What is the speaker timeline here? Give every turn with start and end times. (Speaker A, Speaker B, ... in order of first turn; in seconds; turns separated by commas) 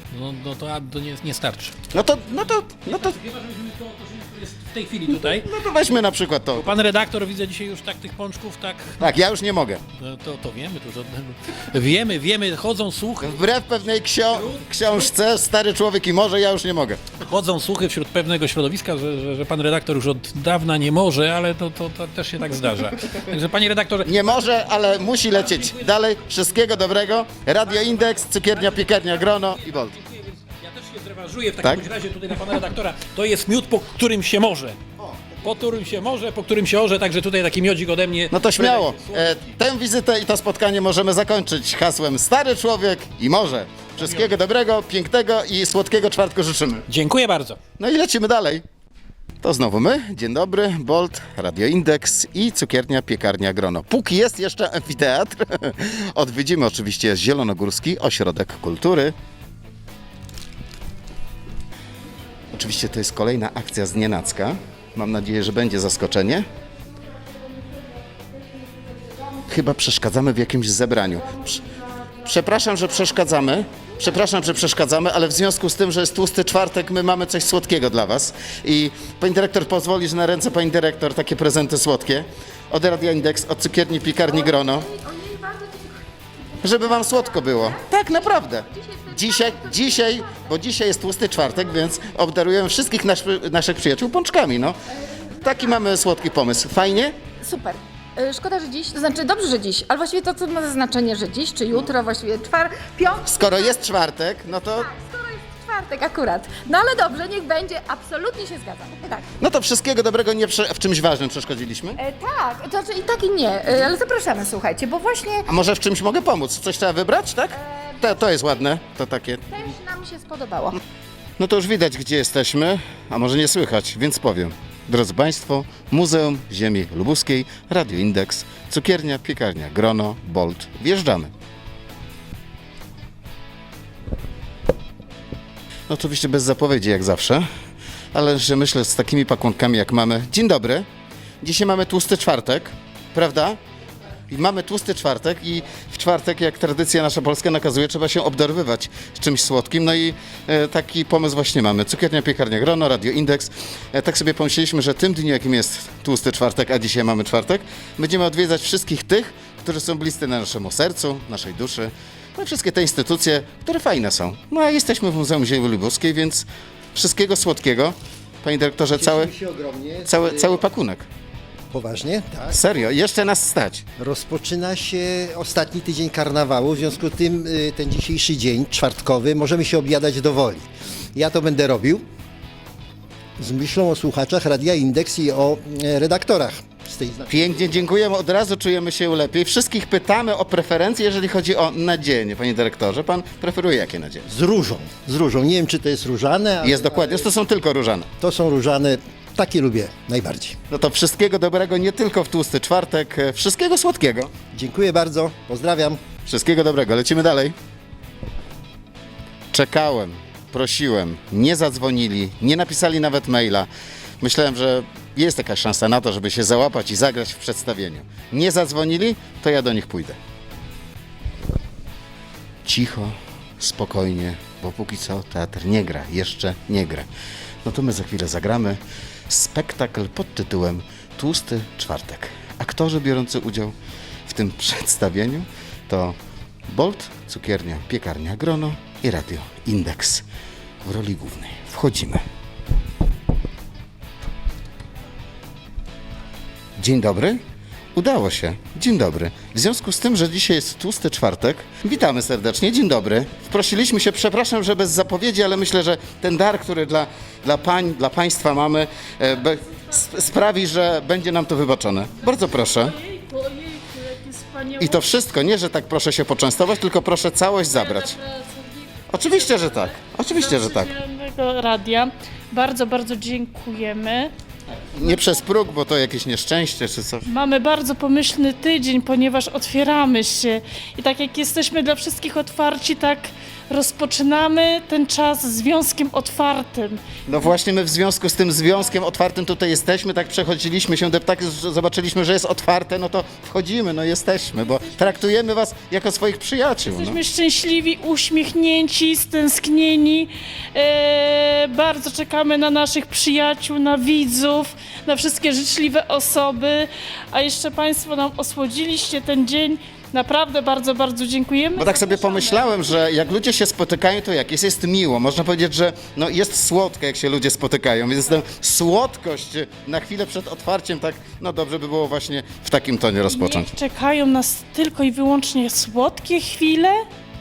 Speaker A: 0.1-5.5, Speaker B: 1.9-3.2, Speaker B: 5.1-6.7, Speaker A: 6.5-9.0, Speaker B: 9.0-9.8, Speaker A: 9.9-13.5, Speaker B: 13.2-17.0, Speaker A: 14.3-15.1, Speaker A: 17.2-26.0, Speaker B: 24.0-30.0, Speaker A: 27.6-34.8, Speaker B: 35.0-35.9, Speaker A: 35.4-39.6, Speaker B: 38.3-46.8, Speaker A: 44.0-44.4, Speaker A: 46.9-47.6, Speaker B: 47.8-48.6, Speaker B: 49.4-59.1, Speaker B: 62.5-66.5, Speaker B: 69.5-71.6, Speaker B: 72.2-84.9, Speaker C: 84.3-90.4, Speaker B: 86.6-94.8, Speaker B: 95.4-97.2, Speaker C: 97.3-103.8, Speaker B: 103.3-104.9, Speaker C: 104.6-109.3, Speaker B: 109.4-112.0, Speaker C: 112.0-115.5, Speaker B: 115.5-119.5, Speaker C: 117.5-118.4, Speaker C: 119.5-120.8, Speaker B: 121.4-131.3, Speaker B: 135.9-137.5, Speaker B: 138.1-140.9, Speaker B: 141.4-143.6, Speaker B: 144.3-169.3, Speaker D: 168.9-170.6, Speaker B: 170.1-171.1, Speaker D: 171.7-172.7, Speaker B: 172.5-173.9, Speaker D: 174.0-182.1, Speaker D: 183.4-187.9, Speaker B: 187.3-194.3, Speaker D: 194.3-197.3, Speaker B: 196.6-198.1, Speaker D: 198.2-200.6, Speaker B: 200.7-204.3, Speaker D: 204.5-206.0, Speaker B: 206.3-207.6, Speaker B: 209.5-213.7, Speaker B: 214.2-220.2, Speaker B: 222.6-227.1, Speaker B: 227.7-233.8, Speaker B: 234.3-240.2, Speaker B: 240.8-242.2, Speaker B: 246.8-247.4, Speaker B: 247.9-263.0, Speaker E: 259.4-260.0, Speaker E: 262.2-265.1, Speaker B: 264.8-268.2, Speaker E: 267.7-274.3, Speaker B: 269.1-270.9, Speaker B: 274.7-277.2, Speaker E: 277.3-287.0, Speaker B: 287.3-297.2, Speaker E: 294.7-295.1, Speaker E: 296.9-312.9, Speaker B: 311.8-323.7, Speaker E: 323.3-327.1